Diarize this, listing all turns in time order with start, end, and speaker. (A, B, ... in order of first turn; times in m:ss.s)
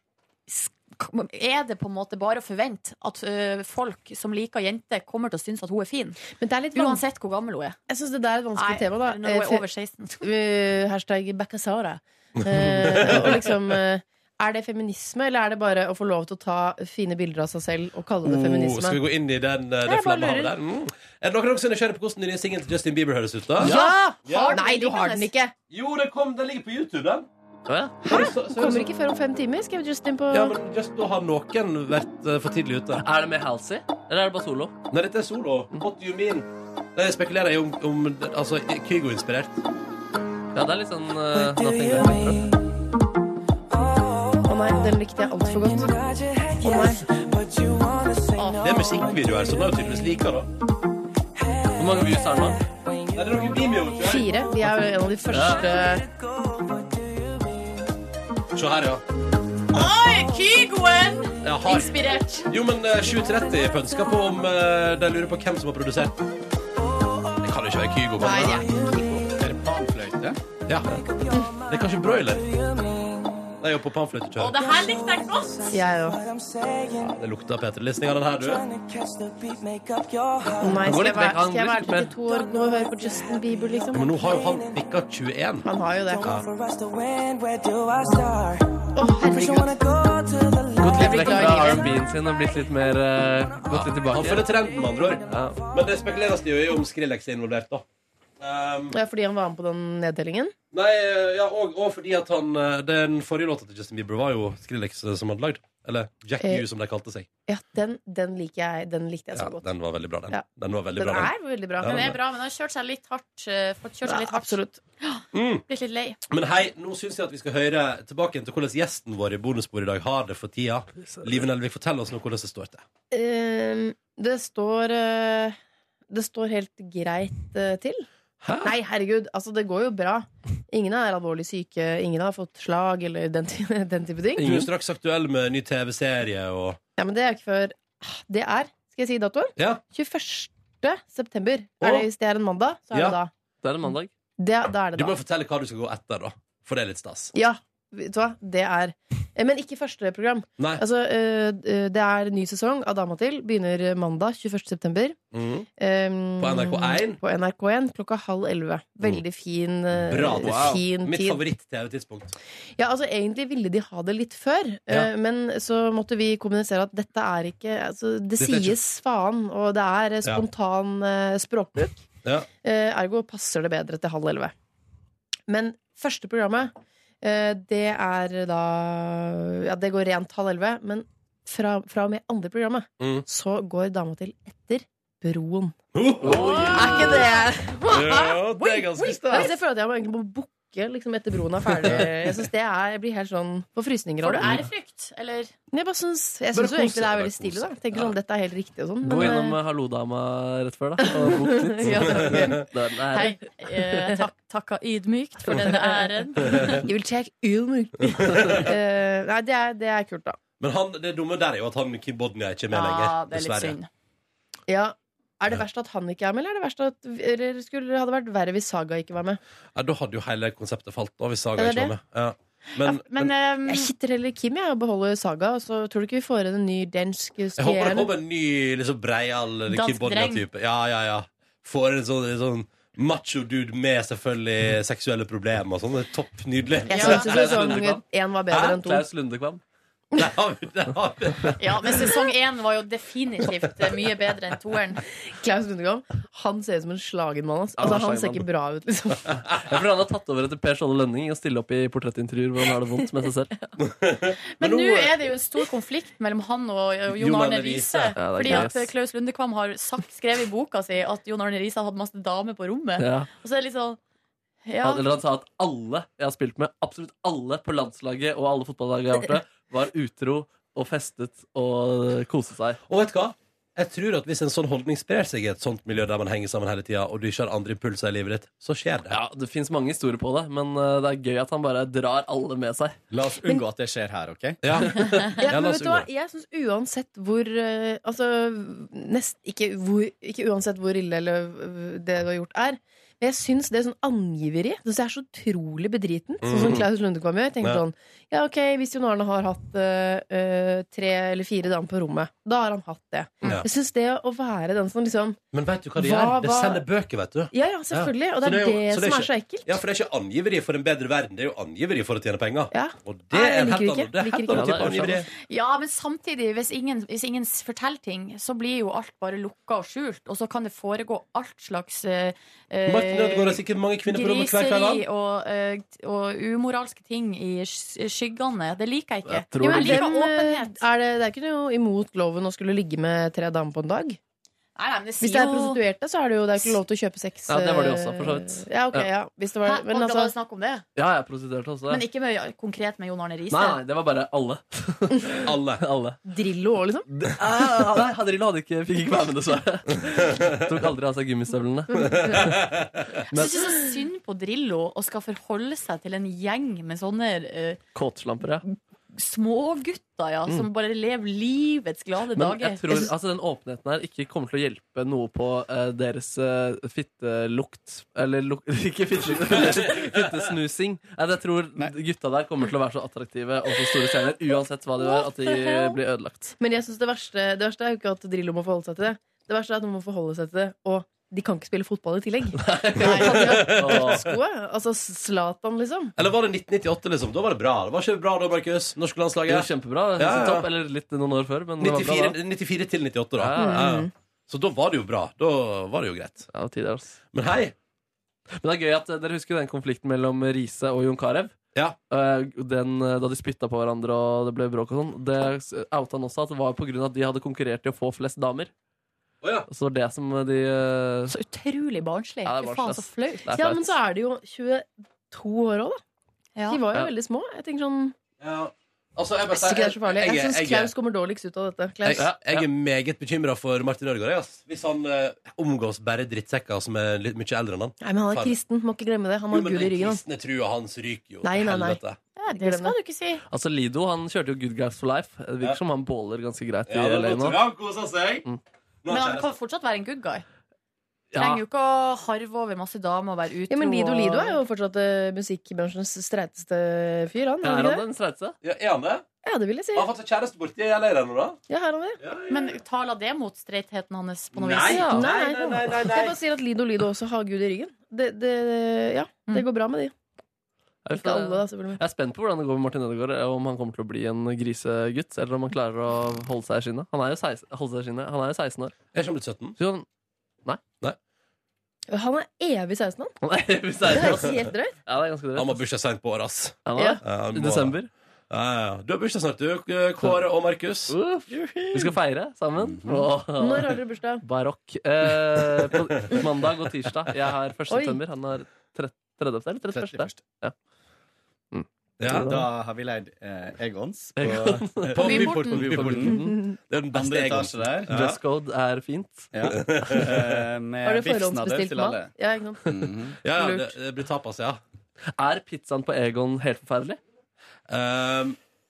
0:00.5-0:06.2 A
0:06.4-0:07.0 B
0:06.7-0:07.8 A
0:07.9-0:09.6 B
0:08.6-0:10.2 A
0:10.2-0:19.0 B
0:12.8-0:13.4 C
0:18.2-0:23.7 C
0:19.8-0:20.5 B
0:23.6-0:25.5 B
0:23.7-0:25.3 A
0:24.2-0:24.6 C
0:25.7-0:27.3 C
0:27.7-0:28.0 D
0:28.0-0:28.9 C
0:28.0-0:30.6 B
0:30.3-0:33.0 C
0:33.0-0:34.7 D
0:34.9-0:39.6 C
0:40.5-0:42.5 D
0:44.4-0:47.1 B
0:48.6-0:50.5 C
0:51.8-0:52.6 D
0:53.1-0:54.3 C
0:54.0-0:56.0 B
0:55.3-0:55.7 D
0:58.5-0:59.0 C
0:59.7-1:02.5 A
1:01.4-1:01.9 C
1:02.5-1:06.2 C
1:07.4-1:08.8 C
1:08.2-1:09.3 B
1:09.3-1:10.4 E
1:10.6-1:11.0 C
1:11.6-1:12.5 C
1:13.6-1:14.6 C
1:14.4-1:15.8 A
1:15.7-1:16.2 B
1:16.9-1:18.7 C
1:20.6-1:24.1 B
1:20.8-1:22.1 D
1:23.9-1:25.7 C
1:25.6-1:26.2 B
1:26.2-1:26.5 C
1:28.9-1:29.9 B
1:30.8-1:34.4 D
1:30.9-1:31.9 B
1:33.7-1:37.8 C
1:35.3-1:35.6 D
1:38.4-1:38.9 C
1:38.9-1:40.5 B
1:40.7-1:47.3 C
1:47.5-1:49.6 B
1:49.3-1:52.2 C
1:50.3-1:52.0 B
1:51.8-1:56.2 A
1:54.0-1:54.8 B
1:55.3-1:55.6 C
1:56.3-2:02.8 C
2:03.1-2:05.6 B
2:06.1-2:08.0 B
2:08.4-2:08.7 C
2:08.6-2:14.6 B
2:14.4-2:14.7 D
2:14.4-2:16.8 C
2:17.0-2:23.3 B
2:21.8-2:22.1 C
2:22.9-2:23.2 C
2:23.6-2:24.1 D
2:24.4-2:25.2 B
2:24.9-2:27.3 C
2:27.3-2:35.2 B
2:35.3-2:35.7 C
2:35.8-2:41.4 B
2:36.4-2:37.2 C
2:40.0-2:42.3 C
2:40.4-2:40.8 D
2:42.8-2:52.0 B
2:48.4-2:48.8 C
2:52.6-2:54.5 B
2:55.5-3:14.6 B
3:05.9-3:07.2 C
3:06.2-3:07.2 D
3:06.8-3:07.6 A
3:07.9-3:09.5 C
3:14.2-3:15.5 A
3:15.7-3:19.6 B
3:16.5-3:18.1 C
3:19.0-3:23.4 D
3:21.0-3:22.6 B
3:21.9-3:22.6 C
3:23.1-3:26.8 A
3:25.8-3:26.0 B
3:26.8-3:30.4 B
3:28.2-3:28.6 C
3:30.6-3:33.8 C
3:32.7-3:33.9 A
3:34.7-3:39.4 B
3:39.7-3:43.3 C
3:41.6-3:41.9 B
3:42.8-3:43.9 A
3:43.7-3:48.1 B
3:47.6-3:57.7 C
3:49.7-3:50.4 A
3:56.9-3:59.1 B
3:56.9-3:57.3 A
3:57.0-3:58.0 D
3:58.5-3:58.8 C
3:58.7-3:59.6 D
4:00.2-4:01.6 C
4:01.6-4:05.0 A
4:05.3-4:09.3 B
4:07.8-4:08.4 D
4:09.6-4:13.5 D
4:13.8-4:15.1 C
4:14.6-4:24.0 A
4:17.1-4:18.7 C
4:18.2-4:18.9 D
4:23.0-4:23.3 D
4:24.6-4:25.0 A
4:24.8-4:32.8 D
4:32.9-4:39.1 C
4:39.1-4:43.0 D
4:43.1-4:44.6 E
4:44.6-4:46.1 C
4:45.4-5:05.4 B
4:56.4-4:56.8 C
5:05.5-5:15.3 C
5:06.0-5:06.8 B
5:07.5-5:09.7 B
5:12.7-5:15.1 B
5:14.5-5:15.2 D
5:15.4-5:30.8 A
5:22.8-5:25.0 C
5:29.3-5:30.0 D
5:29.6-5:34.2 B
5:34.8-5:35.8 A
5:35.2-5:40.3 B
5:37.5-5:39.1 D
5:39.6-5:40.8 A
5:41.0-5:42.0 D
5:41.9-5:43.8 A
5:43.5-5:46.2 D
5:45.4-5:45.8 C
5:46.2-5:47.0 B
5:47.1-5:52.6 D
5:52.1-5:53.1 C
5:53.3-5:53.7 D
5:53.3-5:57.8 A
5:57.9-5:58.6 D
5:58.6-6:02.8 A
6:02.4-6:16.6 D
6:09.4-6:10.3 C
6:15.0-6:16.0 A
6:16.6-6:26.1 B
6:22.6-6:24.2 D
6:23.0-6:24.3 C
6:26.2-6:30.7 C
6:29.5-6:32.4 D
6:31.8-6:36.5 C
6:33.4-6:33.9 D
6:33.6-6:34.1 B
6:36.5-6:37.2 D
6:37.3-6:37.7 C
6:38.6-6:41.5 D
6:42.1-6:48.7 D
6:49.4-6:49.7 C
6:49.7-6:51.3 D
6:51.3-6:53.5 A
6:52.4-6:54.0 D
6:53.5-6:56.0 B
6:56.6-6:56.8 A
6:56.7-6:58.2 B
6:58.4-7:00.9 C
6:59.5-7:02.3 B
7:02.0-7:08.5 C
7:02.2-7:02.7 D
7:08.0-7:10.2 B
7:09.5-7:12.2 C
7:11.4-7:12.0 B
7:12.4-7:13.4 A
7:12.5-7:12.9 B
7:13.5-7:17.6 D
7:16.9-7:18.4 C
7:19.0-7:19.5 C
7:19.1-7:20.4 A
7:21.3-7:21.6 D
7:21.3-7:24.6 A
7:23.7-7:28.0 B
7:27.6-7:28.6 D
7:28.6-7:29.3 C
7:29.4-7:30.1 B
7:29.9-7:31.6 C
7:31.7-7:32.2 B
7:32.2-7:32.7 C
7:32.5-7:35.2 A
7:34.5-7:36.4 C
7:34.9-7:40.1 B
7:41.0-7:49.0 D
7:41.1-7:42.0 B
7:49.1-7:49.8 C
7:49.8-7:50.0 D
7:52.1-7:53.3 B
7:53.4-7:55.8 D
7:54.0-7:55.0 B
7:55.5-7:58.0 C
7:56.8-7:58.1 D
7:58.5-8:01.2 C
8:01.1-8:10.7 D
8:02.8-8:03.3 E
8:03.6-8:04.4 B
8:07.9-8:08.2 B
8:09.9-8:10.4 E
8:11.7-8:12.6 D
8:12.2-8:12.5 C
8:12.3-8:16.3 E
8:14.4-8:16.6 D
8:15.1-8:18.4 C
8:15.2-8:15.8 A
8:16.4-8:16.8 B
8:17.1-8:18.1 E
8:18.1-8:19.5 D
8:19.5-8:22.3 E
8:19.8-8:20.4 C
8:21.0-8:23.9 B
8:22.8-8:23.4 E
8:23.4-8:24.8 C
8:25.4-8:27.2 D
8:27.9-8:28.6 C